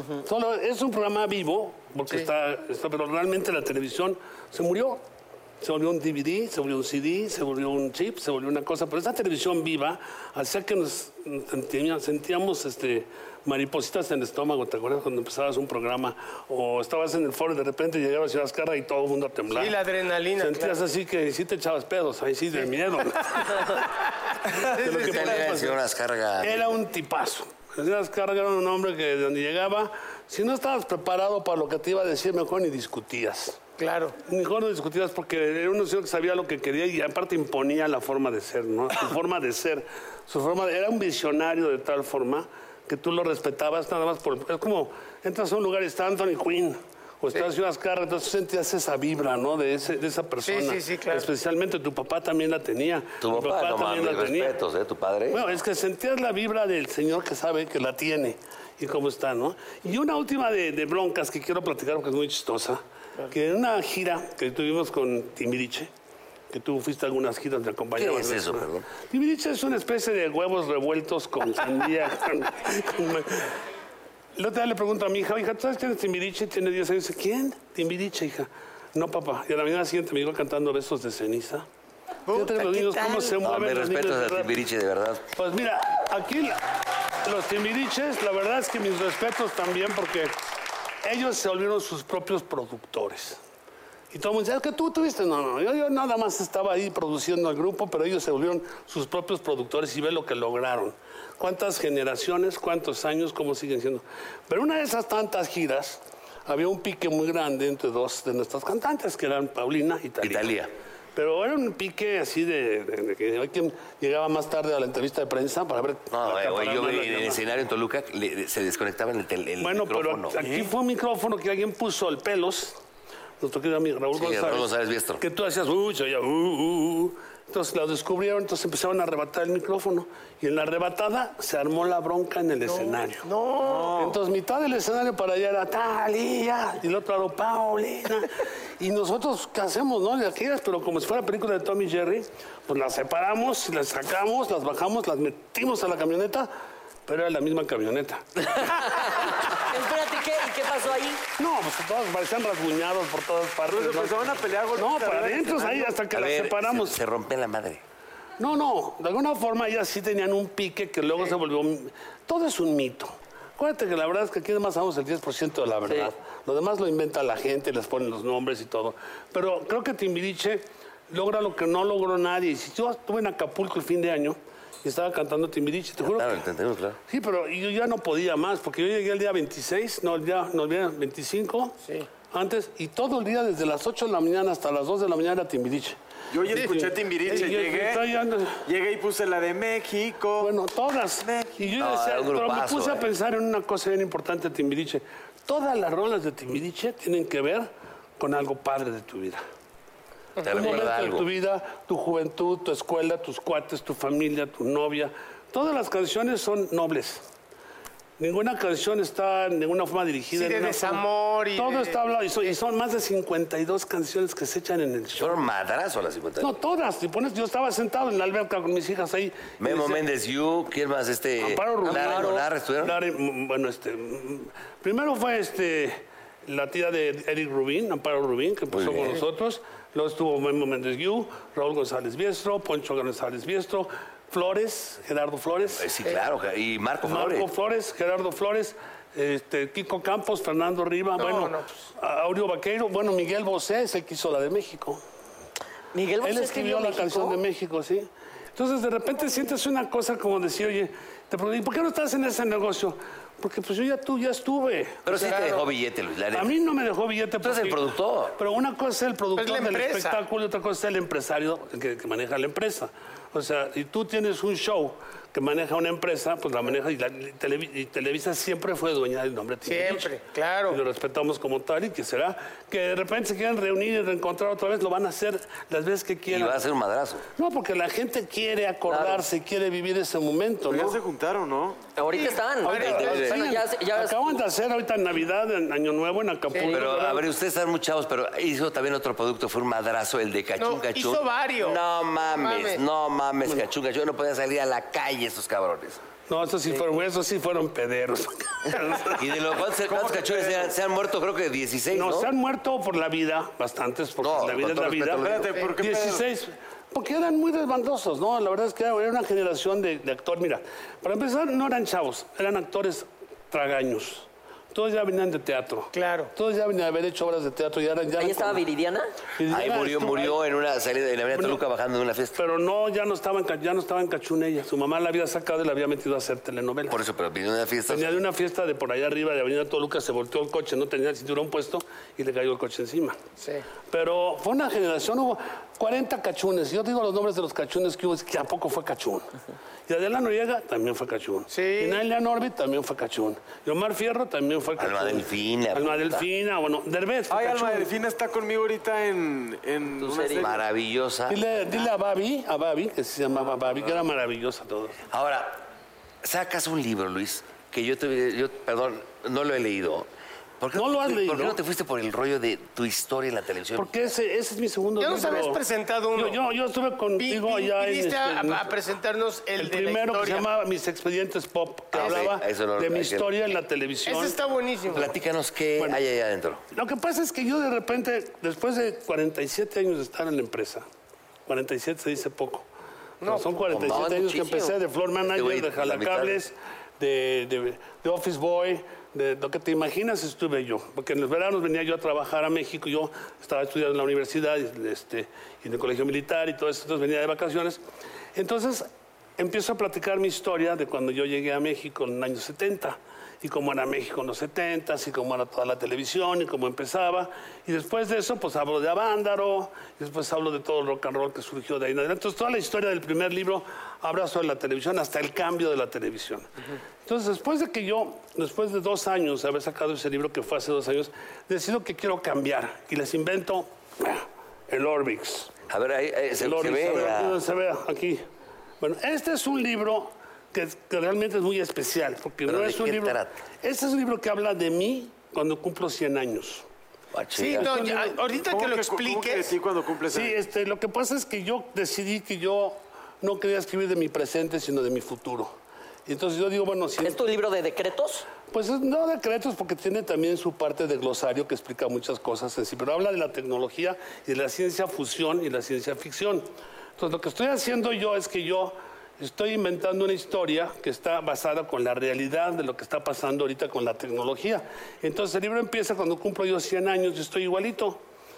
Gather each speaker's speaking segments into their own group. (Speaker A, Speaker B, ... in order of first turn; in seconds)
Speaker A: 0.2-5.0, 5.6-19.8, 20.4-23.9, 24.6-25.8, 26.4-33.6, 34.2-54.5, 55.3-65.9, 66.5-73.5, 74.3-81.6, 82.3-84.6, 85.3-86.6, 87.2-90.3, 91.0-93.4, 94.1-110.5, 111.1-117.5, 119.6-122.8, 123.4-124.7, 125.2-133.3, 133.9-146.5, 147.1-148.3, 151.4-157.0, 158.4-176.4, 177.1-188.6, 190.4-199.4, 200.5-207.2, 208.2-211.0, 211.5-215.4, 216.4-220.0, 221.4-235.9, 237.0-245.0, 246.2-255.2, 256.3-270.1, 270.7-276.6, 277.4-281.0, 282.6-287.2, 296.3-299.4, 301.9-318.6, 319.4-320.4, 321.3-321.6, 322.4-327.0, 327.9-333.2, 333.9-339.3, 339.9-347.9, 351.3-355.0, 360.7-361.6, 363.8-365.6, 366.1-368.7, 369.6-374.4, 376.7-380.8, 381.5-382.7, 383.2-397.8, 398.3-416.5, 417.0-425.6, 426.4-428.2, 428.8-436.6, 437.6-438.1, 440.1-445.5, 446.1-447.2, 448.5-468.0
Speaker B: 19.5-20.8, 24.7-25.5, 33.8-34.2, 50.4-51.3, 82.3-83.4, 132.7-134.0, 181.8-182.1, 186.5-187.5, 200.4-200.9, 210.3-212.0, 241.2-241.7, 255.1-255.6, 259.4-260.2, 269.6-270.8, 282.1-283.4, 290.6-291.8, 292.3-292.8, 315.9-316.3, 333.4-333.6, 341.5-342.0, 365.0-366.4, 367.2-370.5, 371.9-372.3, 374.0-375.1, 383.2-383.5, 437.4-439.6
Speaker C: 24.9-26.7, 53.2-55.4, 68.0-68.9, 83.4-85.3, 110.2-110.7, 116.1-120.4, 124.1-125.2, 156.1-157.8, 176.0-177.0, 191.8-193.0, 200.4-201.2, 215.2-216.5, 219.6-223.0, 228.7-229.2, 235.7-237.5, 255.1-256.5, 257.4-258.4, 276.3-277.2, 282.7-283.4, 286.7-296.0, 299.1-302.3, 304.2-305.6, 319.5-322.4, 326.9-328.2, 344.8-346.2, 350.4-351.4, 355.1-355.6, 356.2-360.1, 360.6-364.0, 371.9-373.3, 374.9-376.6, 383.7-384.8, 385.3-386.4, 425.7-427.4, 432.4-433.4, 437.1-437.8
Speaker D: 133.6-134.1, 153.7-155.9, 186.3-188.0, 188.7-190.5, 191.2-191.5, 280.7-281.8, 299.9-300.7, 305.2-306.2, 347.3-350.6, 438.5-440.4
Speaker E: 148.8-151.2, 165.9-166.1, 221.8-222.4, 245.9-247.4, 278.9-279.2, 281.9-284.4, 318.2-319.1, 350.0-350.5, 447.0-448.3